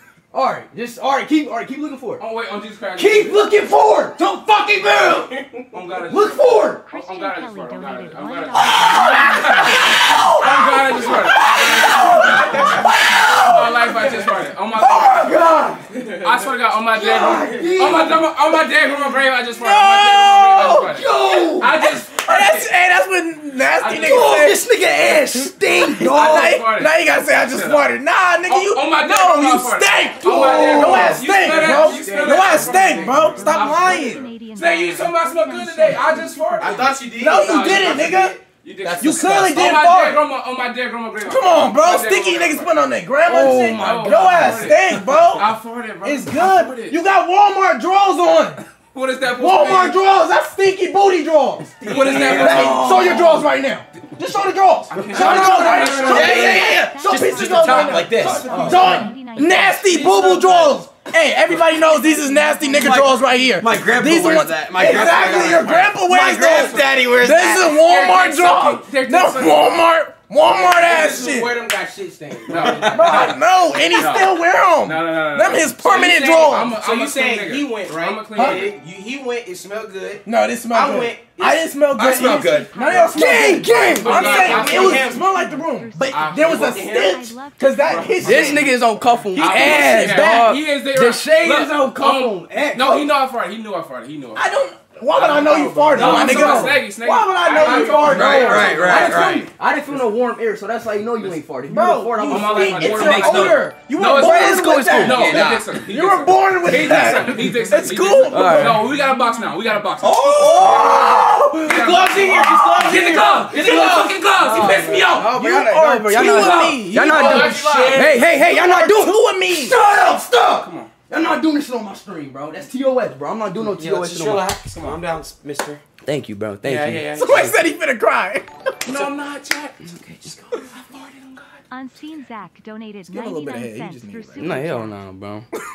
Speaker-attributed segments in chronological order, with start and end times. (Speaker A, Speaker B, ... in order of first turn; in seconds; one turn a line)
Speaker A: 0.3-2.2
Speaker B: 2.2-3.5
Speaker A: 3.0-5.3
Speaker B: 4.3-5.1
Speaker B: 5.7-12.8
Speaker A: 6.0-6.8
Speaker C: 6.7-10.3
Speaker D: 9.8-13.5
Speaker A: 10.0-10.4
Speaker E: 11.9-12.9
Speaker A: 12.2-12.5
Speaker B: 13.3-22.7
Speaker E: 14.8-15.4
Speaker A: 15.1-15.8
Speaker D: 15.2-15.7
Speaker A: 16.9-18.2
Speaker E: 19.5-21.0
Speaker A: 20.9-21.7
Speaker E: 21.8-24.6
Speaker B: 23.8-24.5
Speaker A: 24.0-26.6
Speaker E: 25.4-34.2
Speaker B: 26.0-27.9
Speaker B: 28.4-42.9
Speaker F: 31.6-33.4
Speaker C: 33.2-37.0
Speaker F: 36.6-38.4
Speaker E: 37.1-38.4
Speaker D: 38.9-39.3
Speaker E: 39.0-40.2
Speaker E: 41.2-45.5
Speaker A: 43.3-44.7
Speaker B: 43.5-47.0
Speaker E: 46.0-48.6
Speaker B: 48.8-50.0
Speaker E: 49.3-71.6
Speaker B: 51.8-53.3
Speaker D: 51.9-53.2
Speaker A: 52.0-53.3
Speaker B: 54.9-56.7
Speaker A: 55.1-56.3
Speaker C: 55.2-60.5
Speaker D: 56.1-58.4
Speaker B: 57.5-59.1
Speaker A: 58.4-58.9
Speaker B: 60.3-60.7
Speaker C: 61.5-63.7
Speaker D: 62.7-67.9
Speaker B: 64.9-67.0
Speaker B: 67.7-69.8
Speaker F: 70.6-72.9
Speaker B: 72.5-78.8
Speaker D: 72.5-73.3
Speaker E: 72.9-76.8
Speaker F: 76.7-81.6
Speaker E: 78.3-78.7
Speaker E: 80.2-88.8
Speaker D: 82.0-82.7
Speaker C: 82.4-89.3
Speaker A: 83.1-84.4
Speaker B: 84.0-85.2
Speaker F: 84.2-85.2
Speaker B: 86.1-86.9
Speaker F: 86.6-87.1
Speaker B: 88.2-88.7
Speaker A: 88.2-93.1
Speaker B: 89.3-94.5
Speaker E: 89.4-90.5
Speaker E: 94.4-99.1
Speaker B: 95.1-99.2
Speaker A: 95.9-96.8
Speaker A: 97.7-105.6
Speaker D: 98.0-99.5
Speaker E: 101.7-108.9
Speaker B: 102.3-115.2
Speaker A: 108.3-108.9
Speaker D: 110.1-111.3
Speaker E: 110.2-119.8
Speaker F: 111.8-113.4
Speaker A: 113.5-124.5
Speaker B: 116.3-118.1
Speaker B: 120.5-120.9
Speaker D: 123.6-125.8
Speaker B: 124.7-125.0
Speaker A: 126.0-127.1
Speaker B: 126.6-127.6
Speaker E: 127.2-128.5
Speaker B: 128.8-131.6
Speaker D: 130.2-130.7
Speaker C: 131.7-135.0
Speaker E: 133.1-134.7
Speaker B: 134.4-134.8
Speaker A: 134.5-135.4